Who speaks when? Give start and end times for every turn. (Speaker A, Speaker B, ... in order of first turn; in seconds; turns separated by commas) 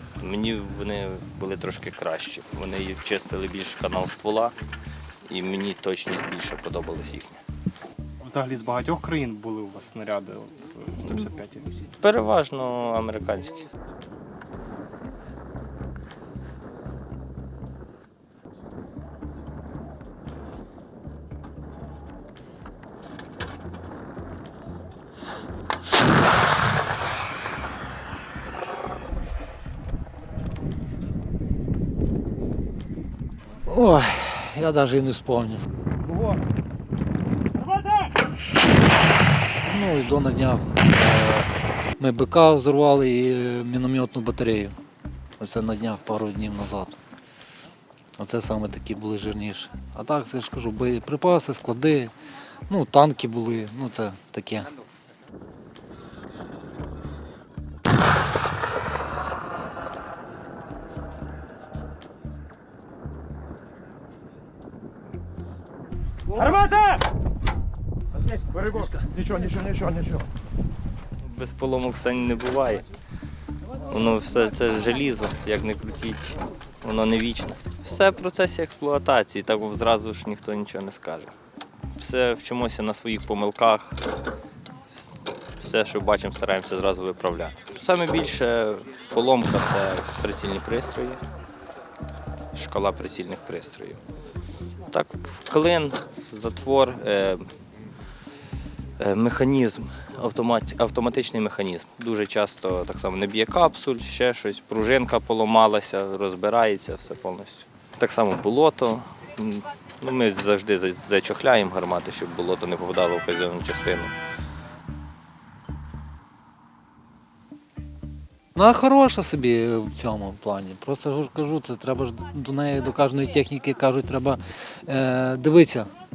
Speaker A: 0.2-4.5, Speaker A: 5.3-7.4, Speaker B: 8.2-11.7, Speaker A: 12.0-13.7, Speaker C: 33.6-35.6, Speaker C: 39.6-44.7, Speaker C: 45.4-47.0, Speaker C: 48.2-52.1, Speaker C: 52.7-54.7, Speaker A: 66.4-66.9, Speaker A: 71.2-72.8, Speaker A: 73.8-81.3, Speaker A: 82.0-84.0, Speaker A: 85.6-91.2, Speaker A: 92.5-94.0, Speaker A: 94.9-97.5, Speaker A: 99.0-114.1, Speaker C: 118.5-125.9